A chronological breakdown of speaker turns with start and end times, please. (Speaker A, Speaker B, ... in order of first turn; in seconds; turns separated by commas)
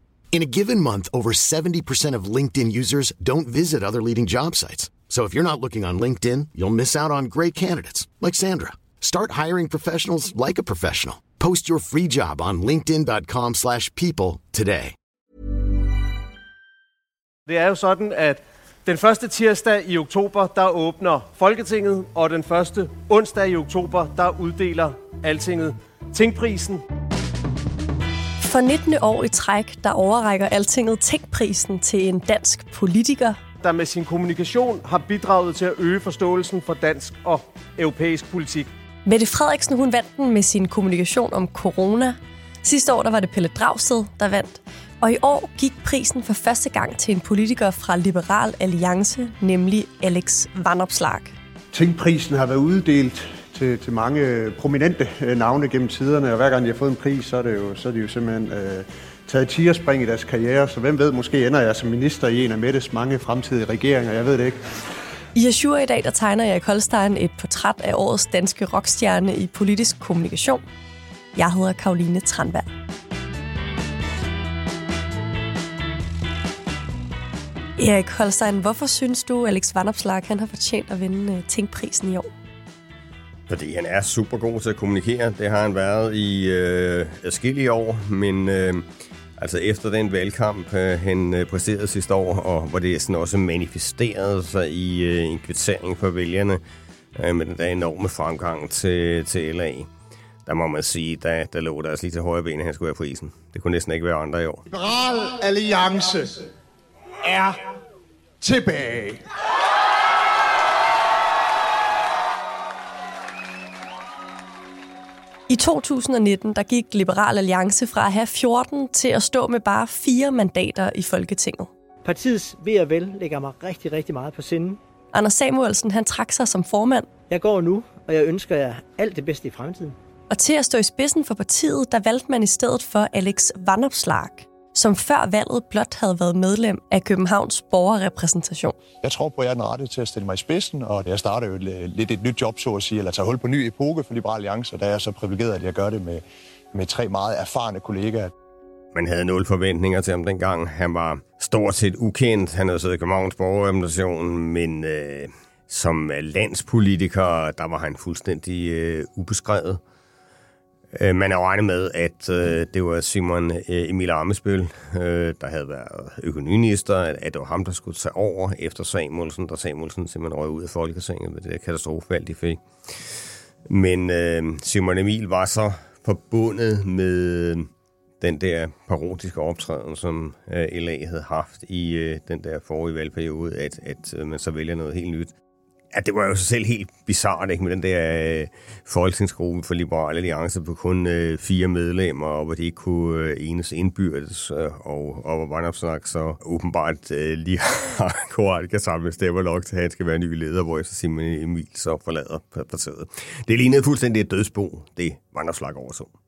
Speaker A: 0.3-14.9, Speaker B: 17.5-26.8, Speaker C: 28.4-33.4, Speaker B: 33.6-38.7, Speaker C: 39.0-51.4, Speaker D: 51.7-64.6, Speaker C: 65.3-70.6, Speaker C: 71.3-72.7, Speaker C: 77.8-82.3, Speaker E: 83.5-88.8, Speaker E: 89.4-96.6, Speaker E: 97.2-99.9, Speaker E: 100.5-104.6, Speaker F: 104.8-106.2, Speaker F: 107.3-107.6, Speaker F: 108.4-109.2, Speaker C: 115.5-121.7, Speaker G: 122.0-124.8, Speaker C: 125.1-127.1, Speaker G: 127.3-130.0, Speaker C: 130.3-138.8, Speaker F: 139.0-148.3, Speaker E: 148.9-159.8, Speaker E: 160.9-172.6, Speaker E: 173.7-177.7, Speaker E: 178.2-185.3, Speaker E: 185.9-206.1